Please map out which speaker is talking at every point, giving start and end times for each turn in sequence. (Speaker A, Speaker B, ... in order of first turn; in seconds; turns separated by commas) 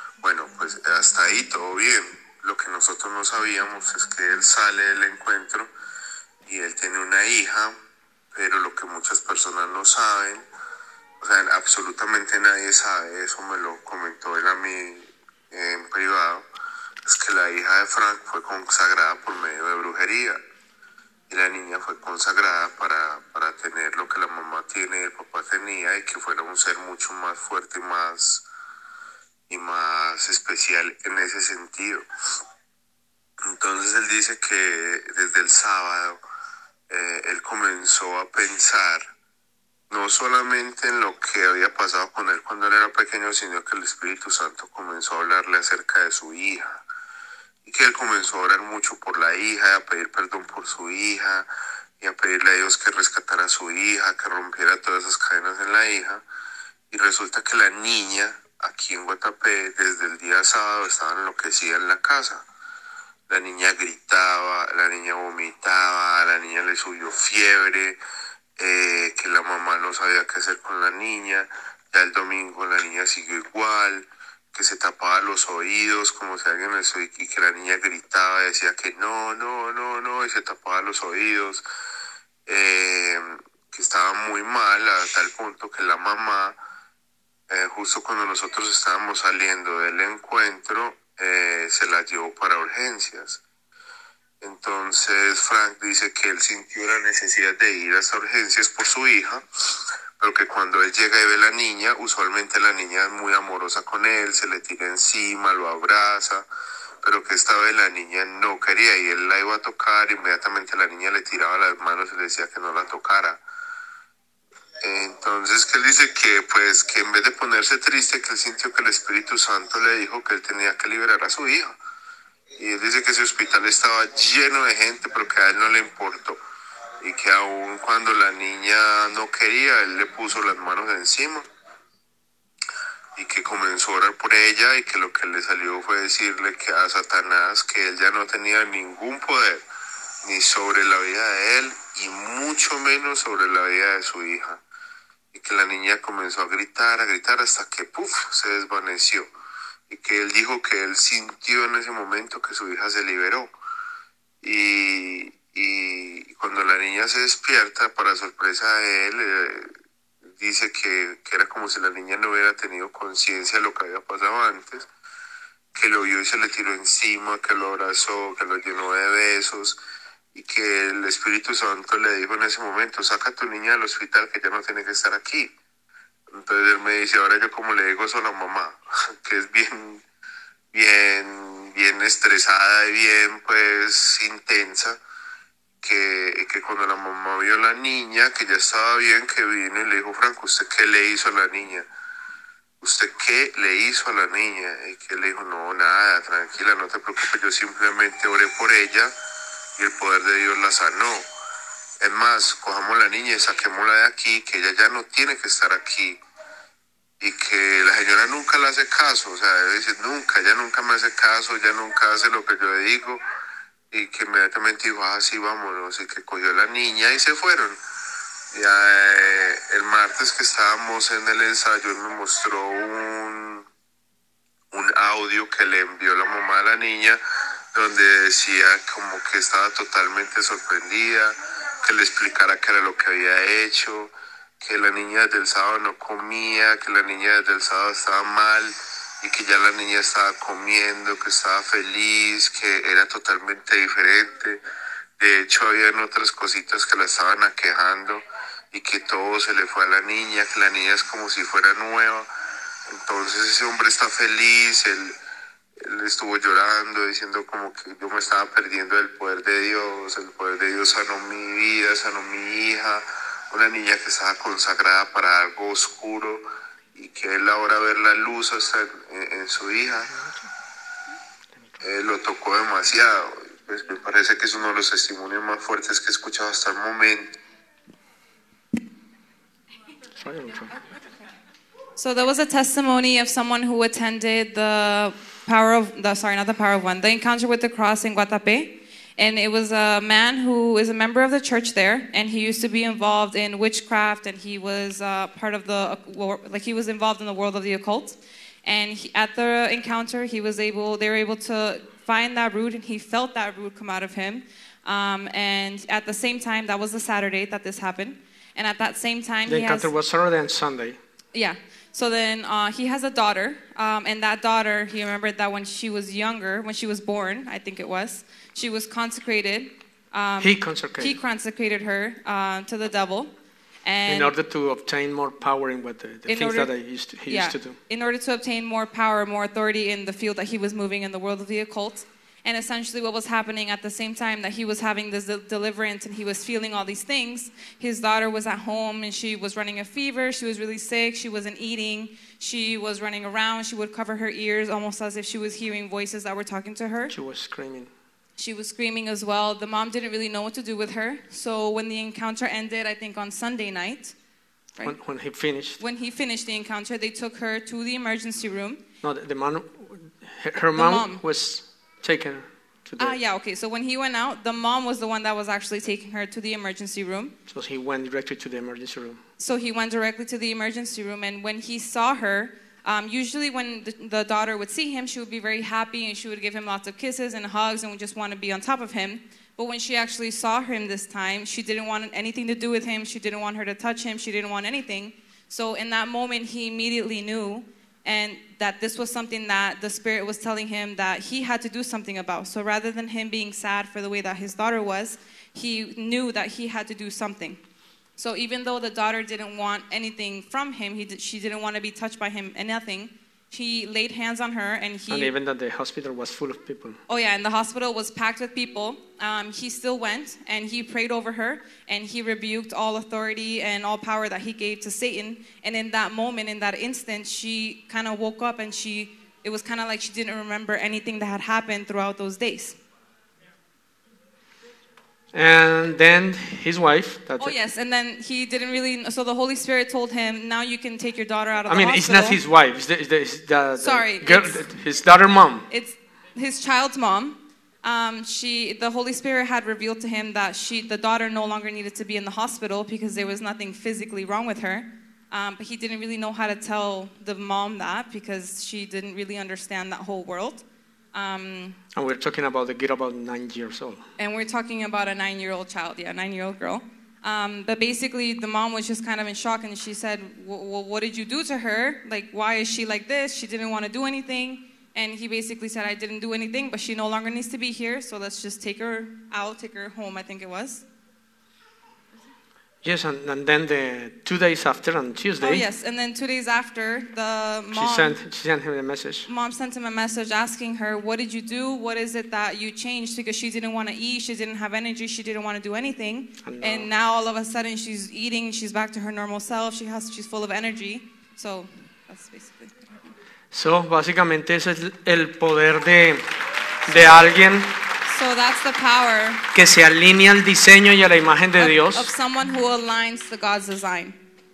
Speaker A: 0.2-5.7, Speaker A: 6.5-7.7, Speaker A: 8.3-10.4, Speaker A: 11.2-16.4, Speaker A: 17.0-20.4, Speaker A: 21.3-28.4, Speaker A: 29.5-32.0, Speaker A: 33.4-36.2, Speaker A: 36.9-39.1, Speaker A: 39.9-46.8, Speaker A: 47.6-51.5, Speaker A: 52.0-56.2, Speaker A: 56.9-62.4, Speaker A: 63.3-68.0, Speaker A: 68.6-81.6, Speaker A: 82.5-86.5, Speaker A: 87.5-93.4, Speaker A: 94.4-106.5, Speaker A: 107.0-113.4, Speaker A: 114.8-121.7, Speaker A: 122.6-126.4, Speaker A: 127.0-131.4, Speaker A: 133.2-139.6, Speaker A: 140.2-144.6, Speaker A: 145.3-149.3, Speaker A: 149.9-153.5, Speaker A: 154.4-159.7, Speaker A: 160.3-164.9, Speaker A: 165.7-169.8, Speaker A: 170.3-175.5, Speaker A: 176.3-180.0, Speaker A: 180.7-185.0, Speaker A: 185.8-191.9, Speaker A: 192.8-199.1, Speaker A: 199.8-201.3, Speaker A: 202.0-206.2, Speaker A: 207.2-213.2, Speaker A: 213.9-217.8, Speaker A: 218.5-223.7, Speaker A: 224.7-227.2, Speaker A: 227.7-244.6, Speaker A: 245.2-252.3, Speaker A: 252.9-255.2, Speaker A: 255.8-270.1, Speaker B: 270.1-270.5, Speaker A: 271.8-277.3, Speaker B: 280.2-280.8, Speaker C: 281.9-309.9, Speaker B: 309.4-311.0, Speaker C: 311.3-323.3, Speaker B: 320.4-321.1, Speaker C: 323.8-324.3, Speaker B: 324.1-327.8, Speaker C: 326.3-326.7, Speaker C: 327.2-347.1, Speaker B: 347.1-347.9, Speaker C: 348.4-354.1, Speaker B: 354.8-355.8, Speaker C: 355.8-358.8, Speaker B: 359.0-363.2, Speaker C: 360.7-361.2, Speaker C: 363.0-367.3, Speaker B: 367.5-369.2, Speaker C: 369.4-397.6, Speaker C: 398.2-405.3, Speaker B: 405.1-407.0, Speaker C: 407.1-422.8, Speaker B: 425.3-427.6, Speaker C: 427.4-432.4, Speaker B: 431.7-435.7, Speaker C: 433.8-434.6, Speaker C: 435.7-451.8, Speaker B: 451.9-454.0, Speaker C: 454.2-470.8, Speaker B: 472.8-475.6, Speaker C: 475.4-478.2, Speaker B: 477.7-479.3, Speaker C: 479.3-493.1, Speaker B: 486.4-486.9, Speaker B: 493.5-496.2, Speaker B: 496.9-497.7, Speaker C: 498.0-499.5, Speaker B: 499.5-502.1, Speaker C: 501.6-504.2